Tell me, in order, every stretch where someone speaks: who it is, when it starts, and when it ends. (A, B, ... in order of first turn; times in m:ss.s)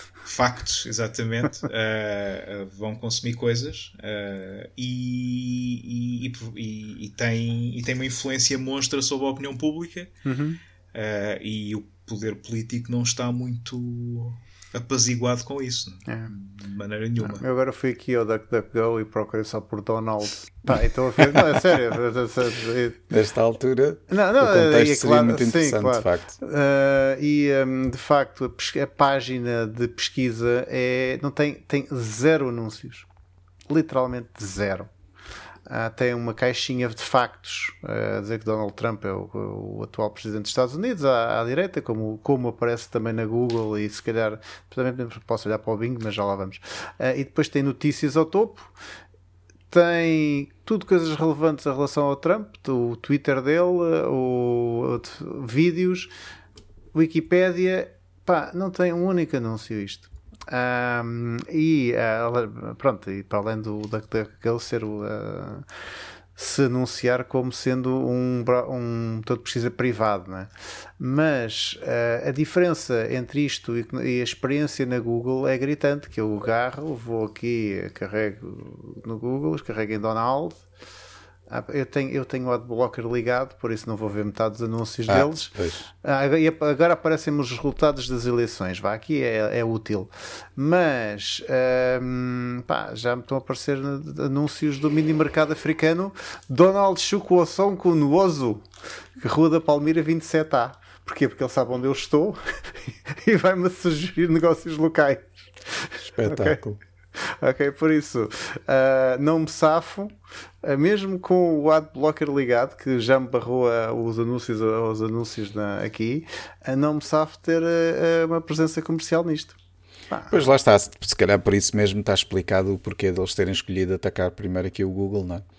0:00.2-0:10.1 A
0:10.2-0:10.6 B
0:10.9-0:17.4 A
0:16.1-0:16.3 B
0:17.2-0:23.0 B
0:23.1-0:26.3 C
0:24.1-0:33.0 B
0:33.7-0:34.9 B
0:35.7-0:48.7 B
0:49.7-0:56.1 B
0:56.9-1:05.7 B
1:06.4-1:20.6 B
1:21.5-1:38.6 B
1:25.1-1:25.9 C
1:39.2-1:46.6 B
1:46.1-1:46.8 C
1:47.1-1:59.6 B
2:00.1-2:00.4 B
2:00.3-2:05.4 C